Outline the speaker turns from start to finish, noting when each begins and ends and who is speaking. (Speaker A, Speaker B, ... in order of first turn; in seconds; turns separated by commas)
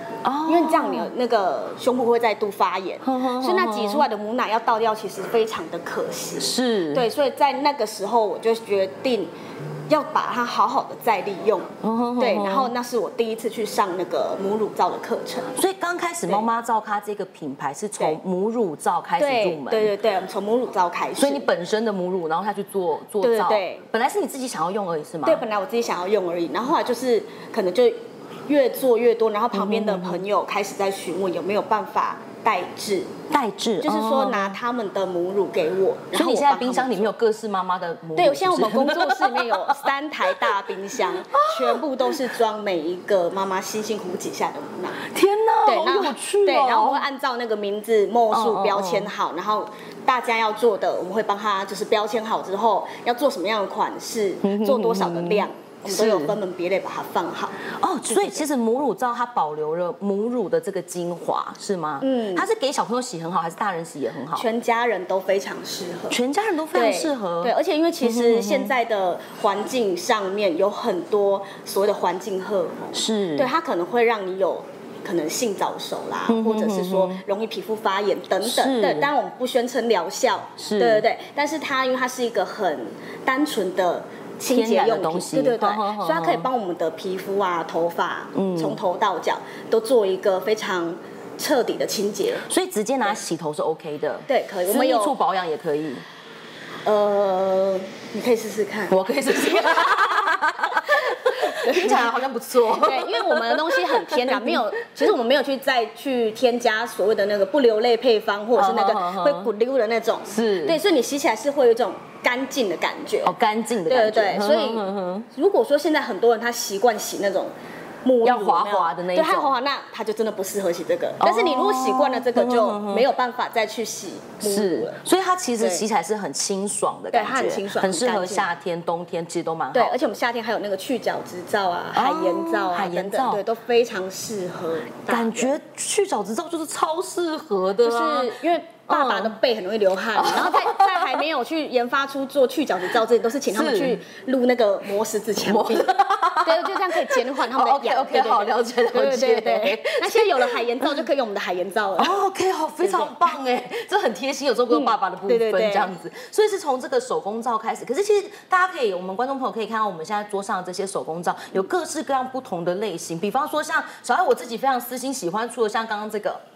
Speaker A: 0.2-1.1, Speaker B: 0.5-9.3, Speaker A: 3.0-4.1, Speaker A: 6.4-7.1, Speaker B: 9.9-15.6, Speaker A: 11.8-12.7, Speaker A: 15.6-19.9, Speaker B: 19.2-21.5, Speaker A: 21.2-25.4, Speaker B: 23.2-23.9, Speaker B: 25.2-33.1, Speaker A: 29.5-30.2, Speaker A: 33.3-34.6, Speaker B: 33.8-37.1, Speaker A: 36.1-42.2, Speaker B: 38.2-45.0, Speaker A: 45.0-47.0, Speaker B: 45.6-58.4, Speaker A: 48.3-49.1, Speaker A: 54.4-56.4, Speaker A: 57.8-64.5, Speaker B: 62.0-62.5, Speaker B: 64.3-66.2, Speaker A: 66.1-68.7, Speaker B: 66.7-92.5, Speaker A: 72.9-73.5, Speaker A: 76.3-77.2, Speaker A: 78.4-79.1, Speaker A: 80.6-81.0, Speaker A: 84.5-86.5, Speaker A: 88.3-88.8, Speaker A: 92.5-96.0, Speaker B: 94.3-95.2, Speaker B: 96.8-100.3, Speaker A: 98.9-104.7, Speaker B: 100.9-102.1, Speaker B: 102.7-113.3, Speaker A: 108.5-109.5, Speaker A: 110.3-110.8, Speaker A: 113.2-115.3, Speaker B: 113.9-117.5, Speaker B: 118.0-125.0, Speaker A: 118.2-119.5, Speaker A: 121.2-123.1, Speaker A: 124.4-130.0, Speaker B: 125.6-125.8, Speaker B: 127.1-128.5, Speaker B: 129.7-135.6, Speaker A: 131.9-133.4, Speaker A: 135.1-139.4, Speaker B: 137.8-145.9, Speaker A: 140.1-141.2, Speaker A: 143.5-144.0, Speaker A: 145.4-151.0, Speaker B: 146.4-152.1, Speaker A: 152.0-166.4, Speaker B: 152.8-153.1, Speaker B: 154.7-155.9